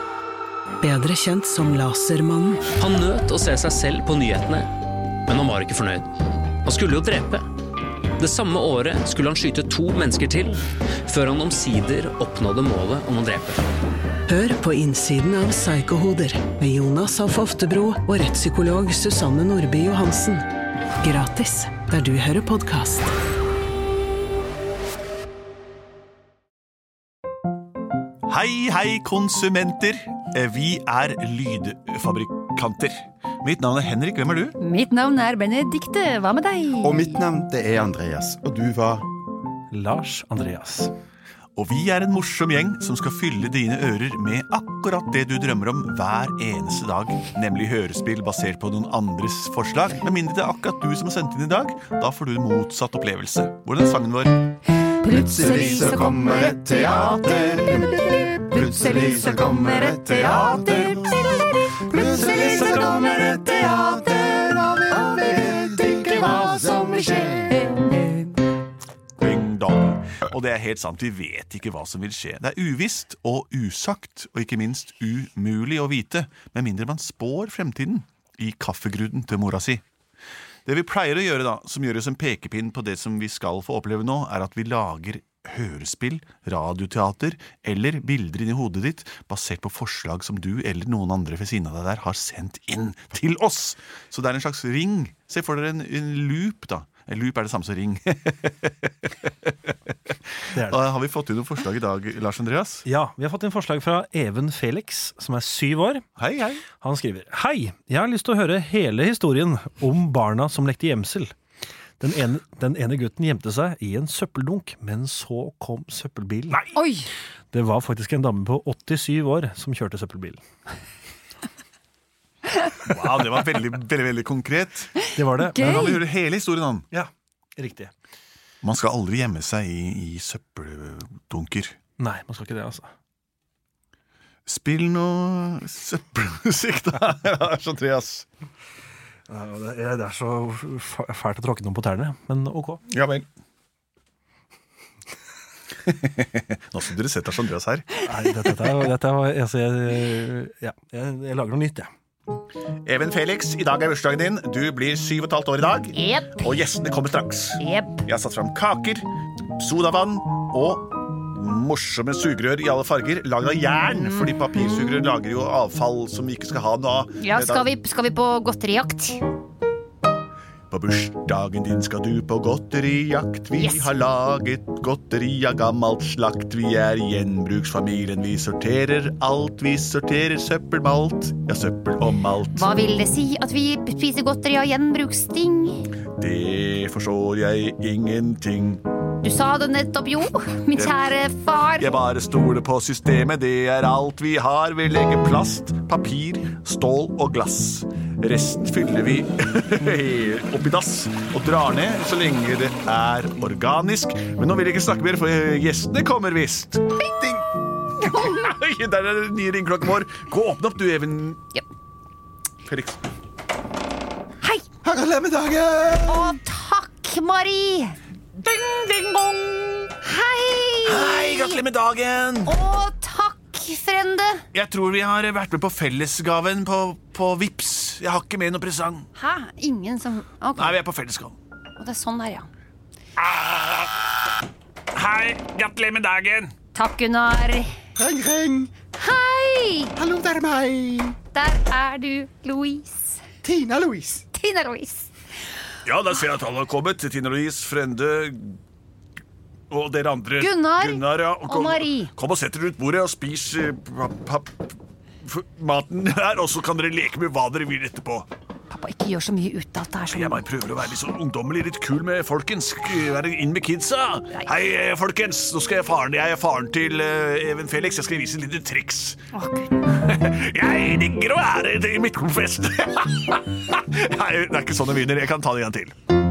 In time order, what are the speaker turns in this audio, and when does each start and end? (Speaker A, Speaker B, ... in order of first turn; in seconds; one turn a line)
Speaker A: 0.8-2.7
Speaker B: 2.8-4.7
Speaker B: 5.3-6.1
Speaker B: 6.6-7.4
Speaker B: 8.2-13.6
Speaker A: 14.3-20.5
Speaker A: 21.0-23.1
Speaker C: 28.2-34.5
Speaker D: 34.6-37.2
Speaker E: 36.8-39.0
Speaker F: 39.7-40.9
Speaker C: 41.5-54.6
Speaker D: 55.0-62.0
Speaker E: 55.0-61.0
Speaker C: 60.1-60.9
Speaker E: 61.9-63.9
Speaker C: 62.0-64.6
Speaker D: 63.8-64.0
Speaker E: 64.9-67.5
Speaker D: 65.5-68.3
Speaker C: 69.2-79.8
Speaker C: 80.7-99.7
Speaker F: 100.5-100.8
Speaker C: 100.6-102.8
Speaker F: 102.8-106.0
Speaker C: 106.2-106.6
Speaker F: 106.7-111.3
Speaker F: 112.0-116.6
Speaker D: 116.7-117.1
Speaker F: 117.5-120.4
Speaker C: 122.8-125.0
Speaker F: 125.1-125.9
Speaker D: 125.4-126.0
Speaker C: 125.6-126.9
Speaker F: 126.9-127.9
Speaker C: 128.6-131.8
Speaker F: 132.0-132.9
Speaker C: 134.4-138.2
Speaker F: 139.3-142.8
Speaker C: 142.9-143.3
Speaker C: 145.8-148.0
Speaker F: 148.0-151.9
Speaker C: 152.8-159.1
Speaker D: 155.9-156.4
Speaker D: 157.6-158.0
Speaker C: 159.6-167.7
Speaker D: 164.0-165.0
Speaker D: 167.2-169.2
Speaker C: 170.7-182.7
Speaker D: 173.6-173.9
Speaker D: 182.6-185.8
Speaker C: 186.2-188.8
Speaker D: 189.2-191.9
Speaker C: 190.8-191.1
Speaker C: 191.8-206.8
Speaker E: 207.0-207.4
Speaker D: 208.0-208.4
Speaker C: 208.1-211.4
Speaker C: 212.6-213.0
Speaker E: 214.8-216.4
Speaker D: 216.1-218.0
Speaker C: 218.4-219.9
Speaker D: 220.0-221.6
Speaker C: 220.8-222.5
Speaker D: 222.4-224.4
Speaker C: 224.5-229.1
Speaker D: 229.2-230.8
Speaker C: 230.6-231.4
Speaker D: 231.8-232.5
Speaker C: 233.2-234.1
Speaker C: 234.9-236.5
Speaker D: 236.7-237.7
Speaker E: 237.9-238.7
Speaker D: 238.9-239.9
Speaker E: 239.9-241.2
Speaker D: 241.3-243.2
Speaker E: 243.4-244.2
Speaker D: 244.3-245.1
Speaker C: 245.8-248.6
Speaker C: 249.7-258.3
Speaker D: 250.4-252.1
Speaker D: 258.7-260.4
Speaker C: 260.1-269.2
Speaker D: 269.3-269.8
Speaker C: 269.9-275.9